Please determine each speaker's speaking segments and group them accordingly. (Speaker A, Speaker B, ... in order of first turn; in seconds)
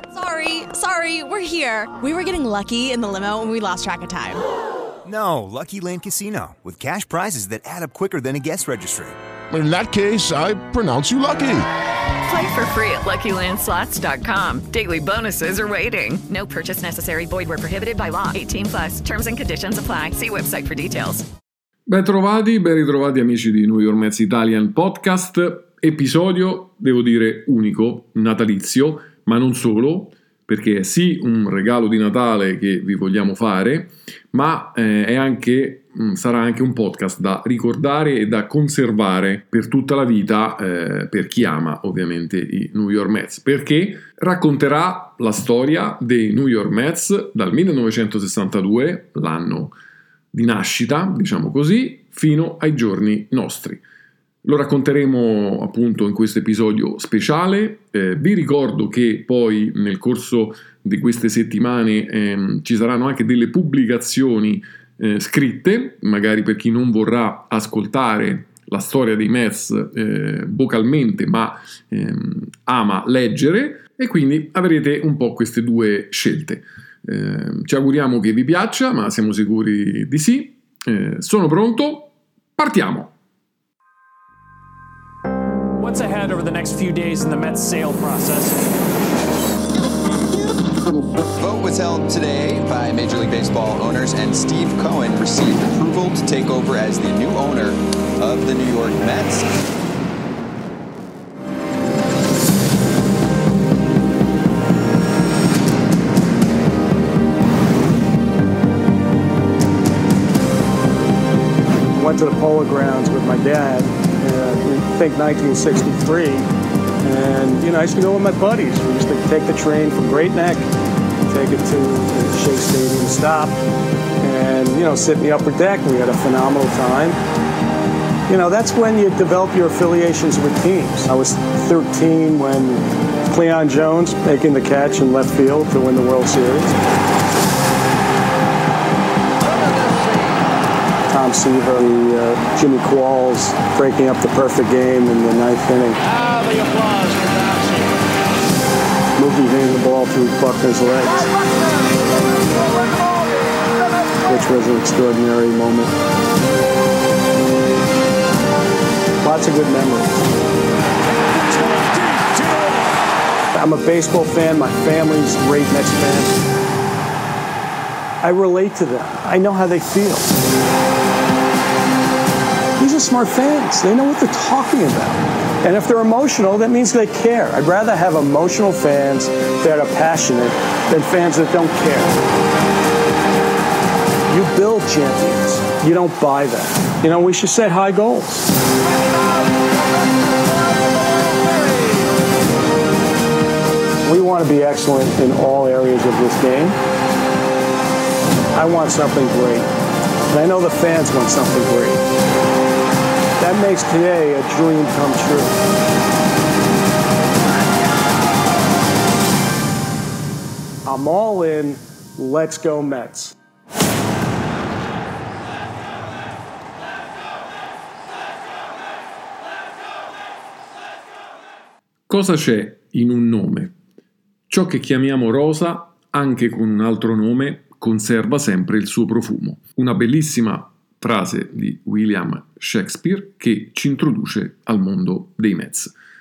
Speaker A: 0.1-4.4
Speaker B: 5.0-9.2
Speaker C: 9.5-11.7
Speaker D: 12.3-21.2
Speaker E: 21.9-49.7, 50.3-53.8, 54.4-83.1, 222.1-223.7, 224.5-235.9
Speaker F: 85.8-88.6, 146.2-147.8
Speaker G: 91.2-99.5
Speaker H: 111.9-116.5, 117.0-120.7, 121.3-123.5, 124.2-127.2, 128.3-136.7, 141.1-146.0, 149.2-151.3, 154.2-155.9, 159.2-160.2, 163.5-166.4, 168.2-170.4, 172.8-182.2, 184.3-188.5, 194.0-196.8, 198.5-199.7, 200.3-202.0, 203.4-205.6, 210.8-213.3